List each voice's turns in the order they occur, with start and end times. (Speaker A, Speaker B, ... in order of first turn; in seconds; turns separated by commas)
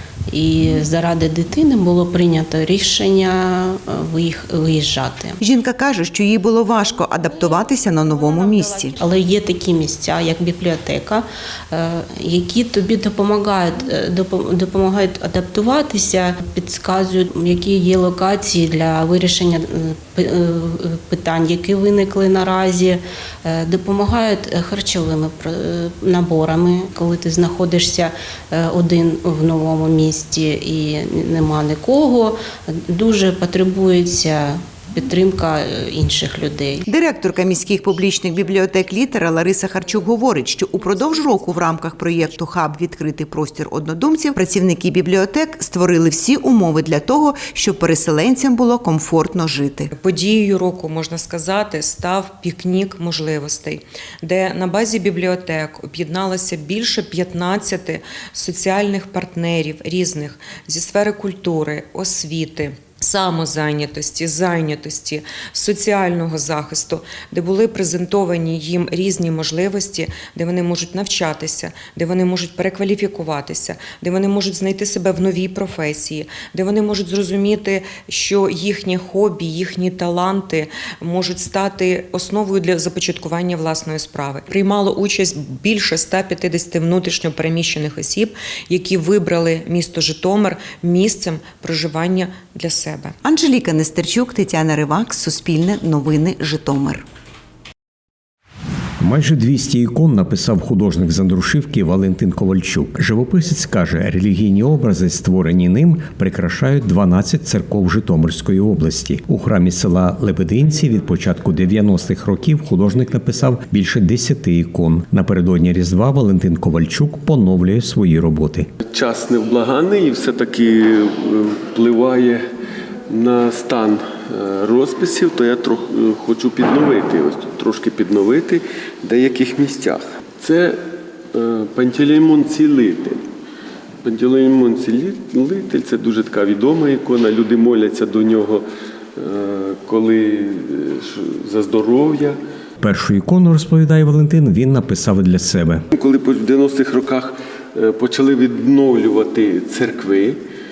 Speaker A: 0.3-5.4, Speaker B: 5.4-8.9, Speaker C: 6.4-8.9, Speaker A: 9.0-36.9, Speaker B: 37.0-49.9, Speaker C: 37.0-37.4, Speaker C: 38.8-39.3, Speaker C: 39.9-46.0, Speaker C: 46.5-47.2, Speaker C: 49.9-93.2, Speaker B: 93.2-97.0, Speaker C: 94.5-96.9, Speaker D: 99.0-118.7, Speaker E: 118.9-122.4, Speaker E: 123.1-130.8, Speaker E: 131.3-133.2, Speaker E: 134.0-138.6, Speaker E: 139.2-142.3, Speaker D: 142.8-145.8, Speaker E: 145.9-150.4